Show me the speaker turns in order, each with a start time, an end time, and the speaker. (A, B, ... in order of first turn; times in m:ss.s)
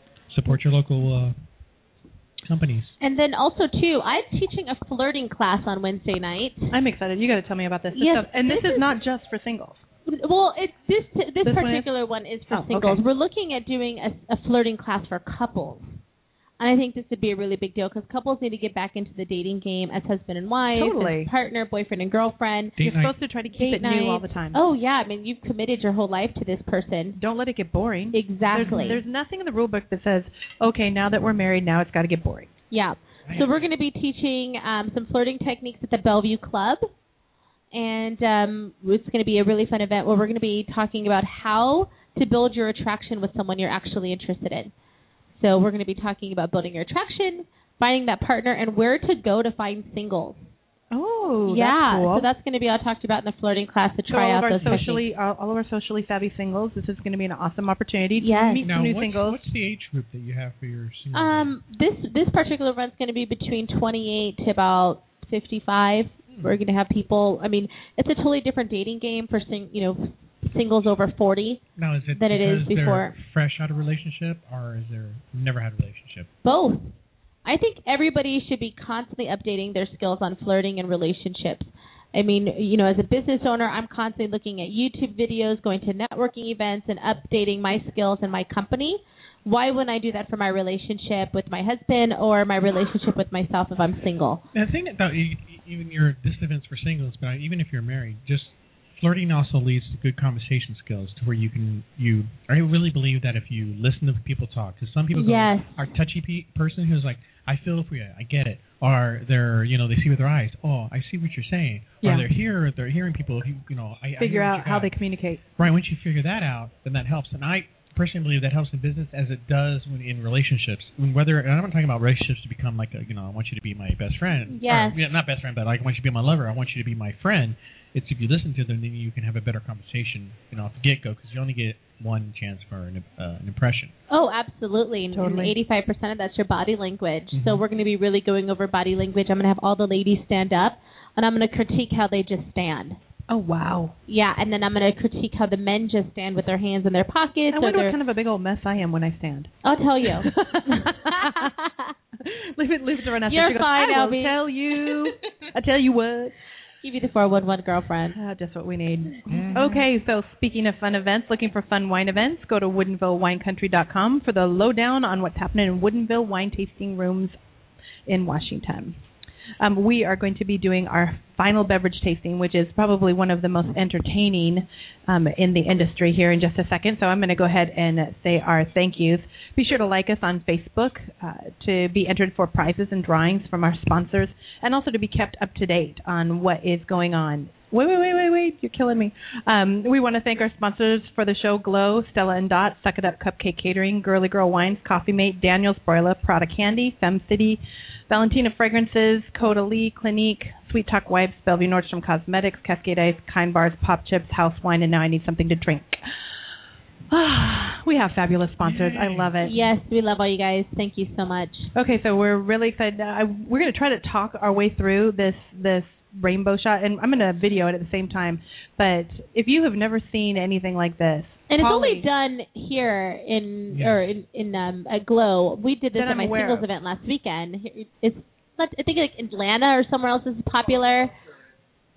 0:00.3-0:01.4 A
0:02.4-0:03.0 A
0:03.0-0:06.8 B
0:06.7-0:09.8 C
0:08.0-0:08.9 B
0:10.1-0:15.9 B
0:11.4-0:11.9 C
0:12.5-0:13.0 C
0:16.6-0:22.8 B
0:20.8-0:21.3 C
0:22.8-0:23.2 A
0:22.8-0:24.6 C
0:23.5-0:27.2 B
0:27.2-0:32.5 C
0:28.1-0:29.0 B
0:28.6-0:29.0 A
0:32.7-0:36.8 B
0:33.2-0:33.7 A
0:37.7-0:44.7 B
0:45.3-0:50.4 B
0:50.9-0:52.3 C
0:51.5-0:55.0 B
0:54.1-0:59.4 C
0:54.6-0:54.8 A
0:58.2-0:58.7 B
0:58.6-1:01.5 A
1:01.1-1:11.6 B
1:06.3-1:06.6 A
1:11.8-1:16.3 A
1:12.2-1:13.2 B
1:16.4-1:16.9 B
1:17.4-1:34.4 B
1:34.5-1:54.9 A
1:45.1-1:45.9 B
1:54.2-1:55.4 C
1:55.6-2:13.9 A
2:04.5-2:05.0 B
2:14.1-2:23.0 B
2:15.1-2:15.6 C
2:17.3-2:17.6 A
2:23.3-2:24.0 C
2:24.1-2:28.0 B
2:27.5-2:29.5 C
2:29.6-2:31.9 B
2:30.1-2:31.5 C
2:32.2-2:36.4 C
2:33.3-2:34.4 B
2:36.8-2:38.2 B
2:38.2-2:47.4 C
2:39.3-2:39.8 A
2:48.1-2:49.0 C
2:49.6-3:26.0 C
3:27.1-3:29.6 C
3:28.6-3:29.4 A
3:29.4-3:31.7 B
3:31.8-3:42.1 C
3:41.5-3:51.1 B
3:43.7-3:44.0 A
3:46.0-3:46.7 C